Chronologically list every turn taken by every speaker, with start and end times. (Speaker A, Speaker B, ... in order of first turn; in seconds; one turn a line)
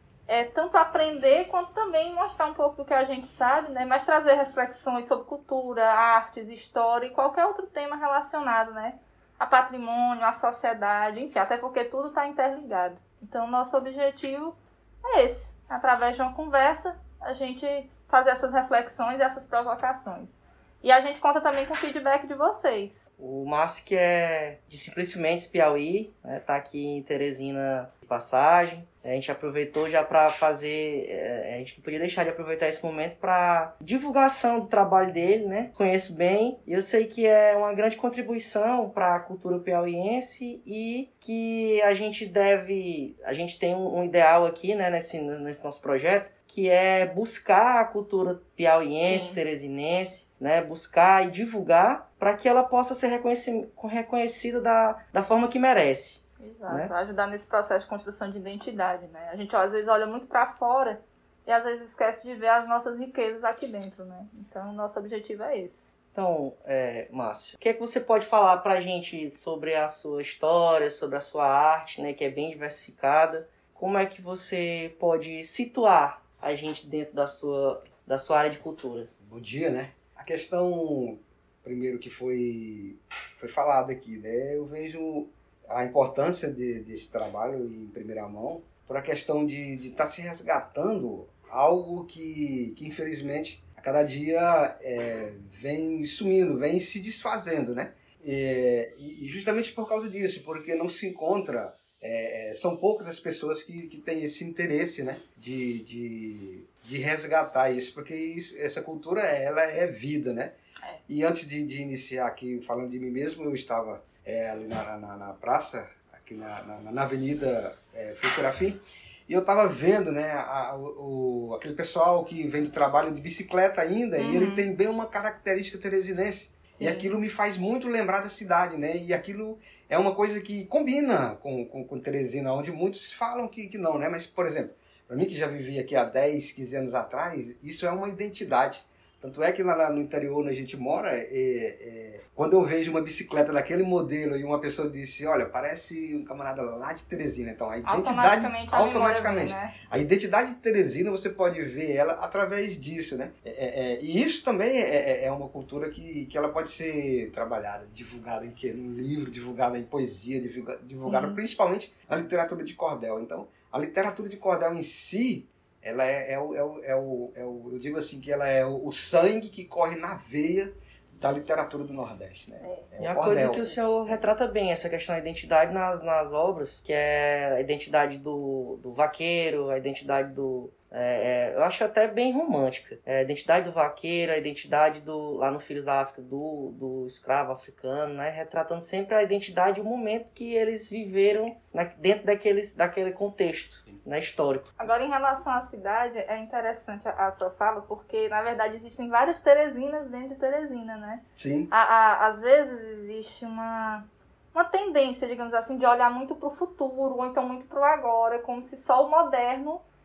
Speaker A: 0.3-23.0
Speaker B: 23.2-56.9
Speaker A: 49.1-49.4
Speaker A: 56.4-65.9
Speaker B: 66.1-79.1
Speaker C: 79.2-110.5
Speaker C: 111.1-173.8
Speaker A: 124.2-124.7
Speaker A: 126.7-127.1
Speaker A: 147.9-149.7
Speaker A: 161.1-161.4
Speaker B: 173.0-194.7
Speaker A: 194.8-209.8
Speaker C: 201.4-201.7